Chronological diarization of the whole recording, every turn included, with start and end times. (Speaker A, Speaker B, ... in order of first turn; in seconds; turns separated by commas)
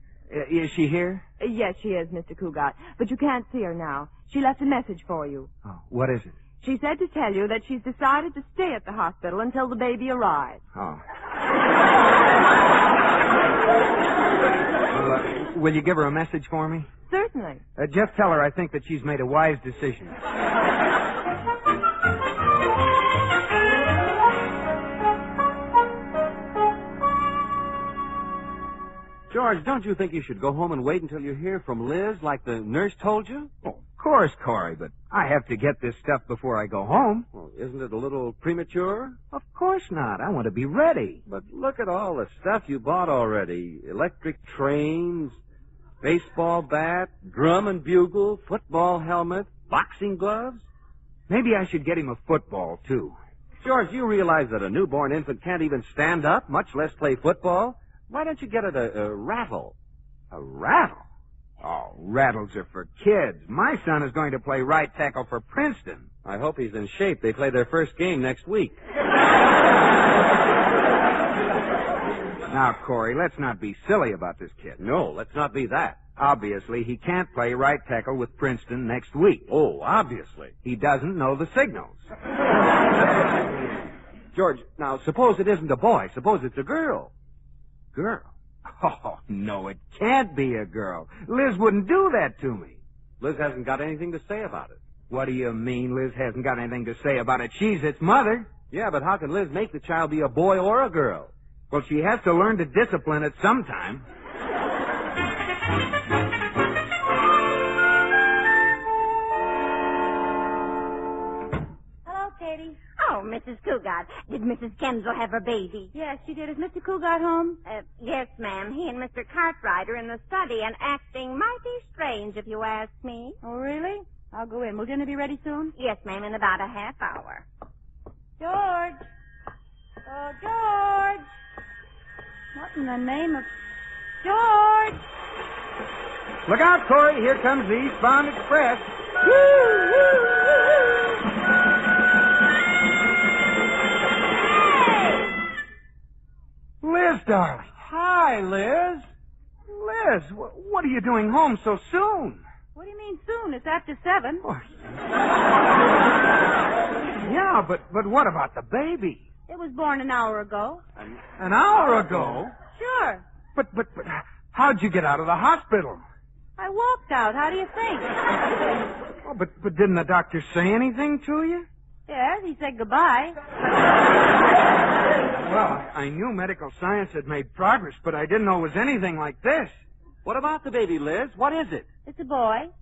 Speaker A: 0.3-1.2, Speaker B: 1.4-5.5, Speaker A: 5.6-6.3, Speaker B: 6.6-10.6, Speaker A: 10.7-11.0, Speaker A: 14.9-16.9, Speaker B: 17.1-17.6, Speaker A: 17.8-20.2, Speaker C: 29.3-33.5, Speaker A: 33.6-37.2, Speaker C: 37.3-39.2, Speaker A: 39.3-41.2, Speaker C: 41.2-45.4, Speaker C: 46.0-50.7, Speaker A: 51.3-53.2, Speaker C: 53.6-59.7, Speaker A: 60.3-61.0, Speaker A: 61.6-66.1, Speaker C: 66.2-68.8, Speaker A: 72.5-74.8, Speaker C: 74.8-76.0, Speaker A: 76.2-79.5, Speaker C: 79.5-80.5, Speaker A: 80.6-82.1, Speaker C: 84.3-87.1, Speaker A: 88.0-92.8, Speaker C: 93.2-94.8, Speaker A: 95.1-98.5, Speaker C: 98.7-101.3, Speaker A: 101.7-104.0, Speaker D: 112.0-112.8, Speaker E: 113.0-115.9, Speaker D: 115.9-117.6, Speaker E: 117.6-123.4, Speaker D: 123.4-125.7, Speaker E: 125.8-127.5, Speaker D: 128.4-129.0, Speaker D: 130.0-131.2, Speaker D: 132.5-133.5, Speaker D: 134.2-135.0, Speaker A: 136.4-138.9, Speaker A: 146.8-147.8, Speaker C: 147.8-149.0, Speaker A: 149.7-152.4, Speaker D: 152.7-154.4, Speaker A: 157.2-159.2, Speaker D: 159.5-160.8, Speaker C: 161.0-161.2, Speaker A: 161.4-162.5, Speaker C: 161.8-162.5, Speaker D: 162.7-163.2, Speaker A: 163.5-166.0, Speaker D: 166.6-168.1, Speaker A: 169.2-171.7, Speaker D: 172.1-173.3, Speaker A: 175.3-179.8, Speaker C: 180.2-181.9, Speaker D: 182.1-182.7